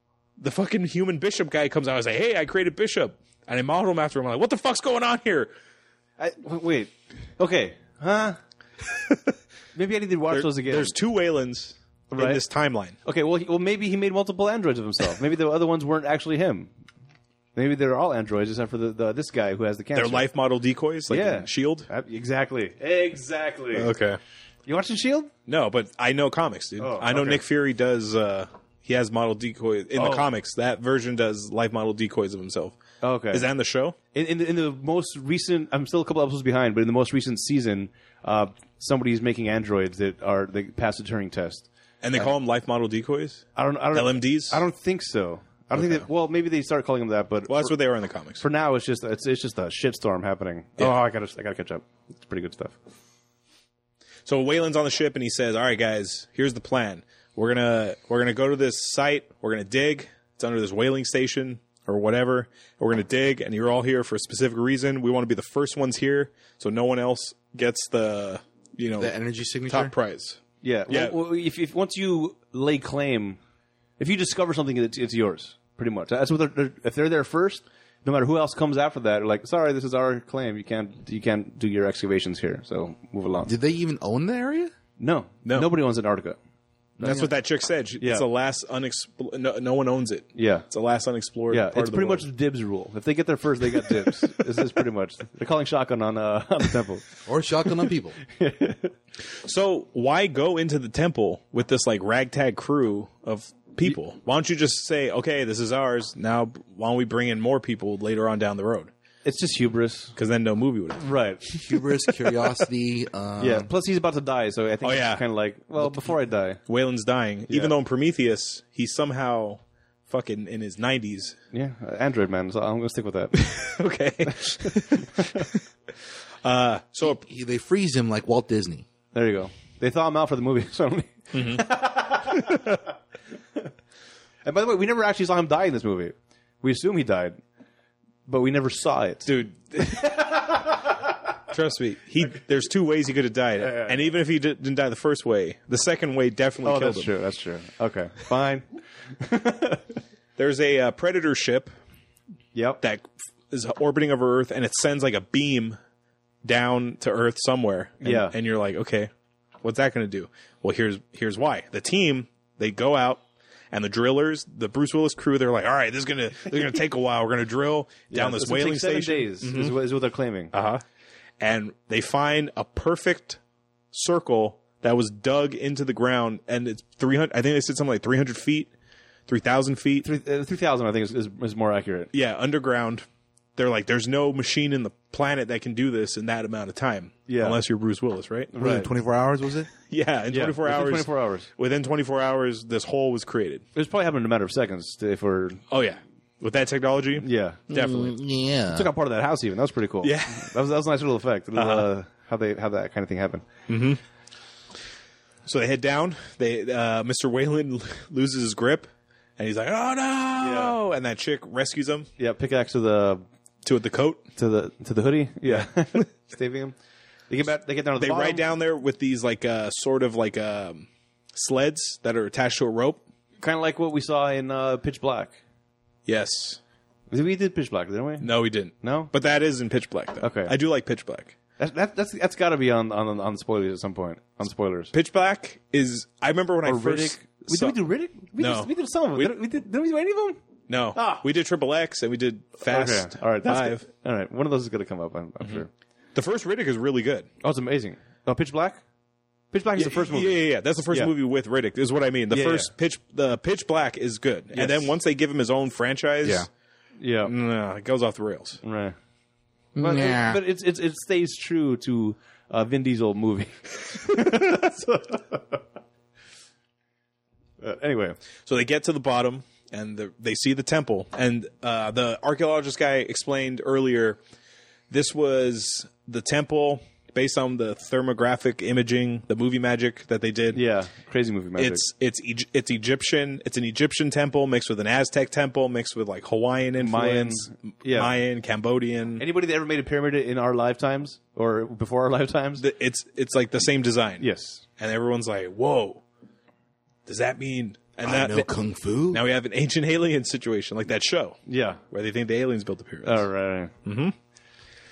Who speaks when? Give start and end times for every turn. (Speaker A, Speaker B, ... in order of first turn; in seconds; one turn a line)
Speaker A: 0.4-5.5
Speaker B: 6.2-8.4
Speaker B: 9.7-10.9
Speaker A: 10.3-13.0
Speaker B: 12.1-12.4
Speaker B: 13.0-16.7
Speaker B: 17.6-20.3
Speaker A: 19.9-21.9
Speaker B: 21.1-23.9
Speaker A: 23.7-24.2
Speaker B: 24.6-25.3
Speaker A: 25.5-32.8
Speaker B: 26.8-27.4
Speaker B: 29.9-30.3
Speaker B: 33.0-33.5
Speaker A: 33.3-34.0
Speaker B: 34.1-42.3
Speaker A: 42.0-44.6
Speaker B: 43.5-47.7
Speaker A: 45.7-46.0
Speaker A: 47.5-48.4
Speaker B: 48.4-52.8
Speaker A: 54.2-69.1
Speaker C: 69.0-69.9
Speaker A: 69.7-71.2
Speaker B: 70.6-73.4
Speaker B: 74.0-83.5
Speaker C: 83.5-84.7
Speaker B: 85.0-86.4
Speaker C: 87.0-87.3
Speaker A: 87.0-92.2
Speaker B: 88.0-88.2
Speaker B: 90.3-90.7
Speaker B: 91.5-97.1
Speaker C: 97.2-98.2
Speaker B: 98.2-98.9
Speaker A: 99.4-108.9
Speaker B: 109.2-110.1
Speaker A: 110.2-111.1
Speaker B: 111.0-111.8
Speaker C: 111.6-113.7
Speaker B: 113.4-116.6
Speaker A: 114.8-115.2
Speaker A: 116.7-121.4
Speaker B: 117.5-117.7
Speaker B: 121.5-123.5
Speaker A: 123.3-125.6
Speaker B: 124.2-125.5
Speaker A: 126.4-127.2
Speaker C: 127.0-128.8
Speaker B: 129.1-132.8
Speaker A: 131.3-132.8
Speaker B: 134.4-137.4
Speaker B: 138.3-141.1
Speaker A: 139.2-140.1
Speaker A: 141.5-147.1
Speaker B: 143.6-143.9
Speaker B: 146.6-148.6
Speaker B: 149.2-150.0
Speaker A: 150.4-151.7
Speaker B: 152.5-152.8
Speaker A: 152.8-155.8
Speaker A: 156.4-159.1
Speaker B: 158.0-158.3
Speaker A: 159.6-163.2
Speaker A: 163.7-169.8
Speaker B: 168.1-170.5
Speaker A: 170.5-170.8
Speaker A: 171.4-173.4
Speaker A: 173.9-178.7
Speaker A: 179.3-180.1
Speaker B: 180.0-182.1
Speaker A: 182.1-183.0
Speaker A: 183.6-188.5
Speaker B: 187.3-187.6
Speaker B: 188.5-188.9
Speaker C: 188.6-189.7
Speaker A: 189.9-193.6
Speaker B: 190.3-191.5
Speaker B: 193.7-195.6
Speaker A: 195.7-198.1
Speaker B: 197.2-197.6
Speaker C: 197.7-198.9
Speaker B: 198.7-203.5
Speaker A: 200.0-200.5
Speaker A: 201.5-201.9
Speaker A: 203.7-204.0
Speaker A: 205.4-212.1
Speaker B: 210.4-210.7
Speaker B: 212.2-213.2
Speaker A: 213.6-214.2
Speaker B: 214.3-216.8
Speaker A: 215.5-216.0
Speaker B: 217.3-218.4
Speaker A: 218.0-223.0
Speaker B: 223.4-225.3
Speaker A: 226.1-226.6
Speaker B: 227.1-229.1
Speaker A: 228.2-231.3
Speaker B: 230.2-230.5
Speaker B: 231.6-234.9
Speaker A: 234.9-237.8
Speaker B: 236.6-240.4
Speaker A: 238.4-239.3
Speaker A: 240.7-243.8
Speaker B: 240.9-241.2
Speaker B: 242.6-245.7
Speaker A: 246.1-247.3
Speaker B: 247.4-248.8
Speaker B: 249.5-251.1
Speaker A: 249.8-256.5
Speaker B: 252.3-252.7
Speaker B: 254.5-254.9
Speaker C: 256.2-256.5
Speaker B: 257.0-257.3
Speaker A: 257.2-258.6
Speaker B: 258.6-258.9
Speaker C: 259.8-260.4
Speaker B: 259.8-265.6
Speaker B: 267.6-268.2
Speaker A: 268.4-274.2
Speaker A: 274.9-280.6
Speaker B: 280.5-281.8
Speaker A: 281.6-289.2
Speaker B: 286.8-288.1
Speaker B: 289.2-292.6
Speaker A: 292.6-294.3
Speaker B: 294.2-294.6
Speaker A: 294.8-296.0
Speaker A: 297.1-298.5
Speaker C: 298.0-299.2
Speaker A: 299.1-303.2
Speaker B: 301.5-301.8
Speaker B: 303.0-303.7
Speaker A: 303.8-304.1